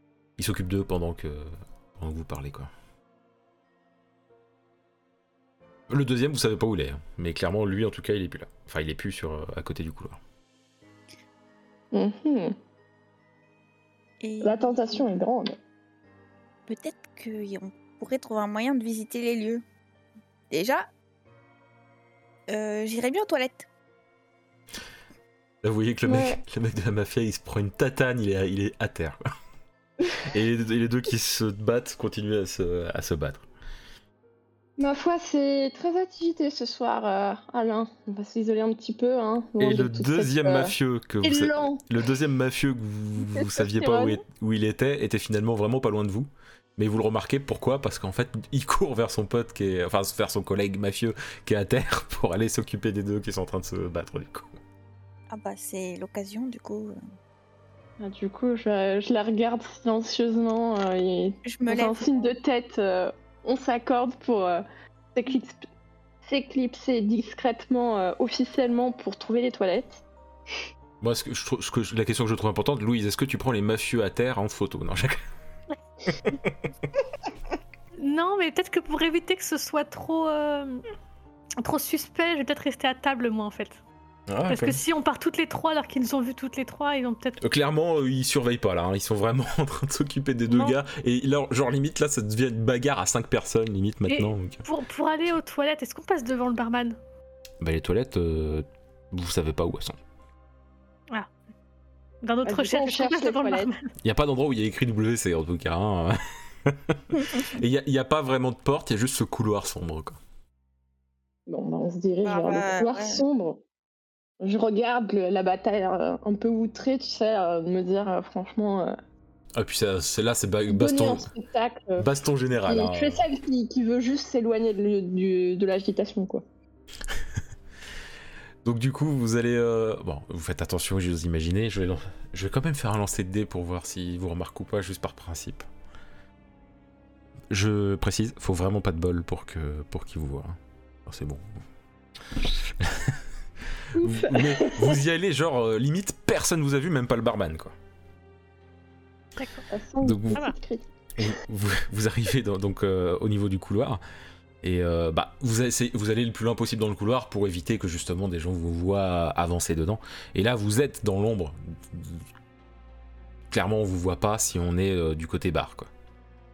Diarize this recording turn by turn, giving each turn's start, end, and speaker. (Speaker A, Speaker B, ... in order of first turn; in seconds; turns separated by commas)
Speaker A: 0.4-2.7, Speaker A: 5.9-10.2, Speaker B: 11.9-12.6, Speaker C: 14.2-15.0, Speaker B: 14.4-15.6, Speaker C: 16.7-19.6, Speaker C: 20.5-20.9, Speaker C: 22.5-23.7, Speaker A: 25.6-29.2, Speaker B: 26.1-26.4, Speaker A: 30.2-33.5, Speaker B: 34.8-41.9, Speaker A: 39.6-54.6, Speaker B: 43.2-44.2, Speaker C: 55.3-57.0, Speaker B: 58.0-64.6, Speaker C: 61.5-62.3, Speaker B: 65.2-65.7, Speaker B: 66.3-70.0, Speaker A: 71.0-75.2, Speaker A: 76.3-76.6, Speaker D: 78.0-80.8, Speaker D: 81.6-83.8, Speaker A: 84.3-84.8, Speaker D: 84.5-87.4, Speaker A: 87.4-94.6, Speaker D: 90.5-90.8, Speaker D: 94.1-97.0, Speaker A: 97.6-100.0, Speaker D: 102.2-103.8, Speaker B: 102.5-103.7, Speaker A: 104.0-110.2, Speaker B: 111.5-113.6, Speaker C: 112.2-113.2, Speaker B: 114.4-119.0, Speaker A: 119.6-121.3, Speaker B: 120.7-122.1, Speaker A: 122.0-123.2, Speaker B: 122.7-126.5, Speaker A: 128.6-135.7, Speaker A: 137.5-141.6, Speaker A: 142.7-143.2, Speaker A: 143.7-147.7, Speaker B: 143.9-145.0, Speaker D: 149.4-149.7, Speaker B: 149.7-151.3, Speaker A: 150.0-150.4, Speaker A: 151.2-154.0, Speaker A: 154.6-162.2, Speaker A: 163.5-165.9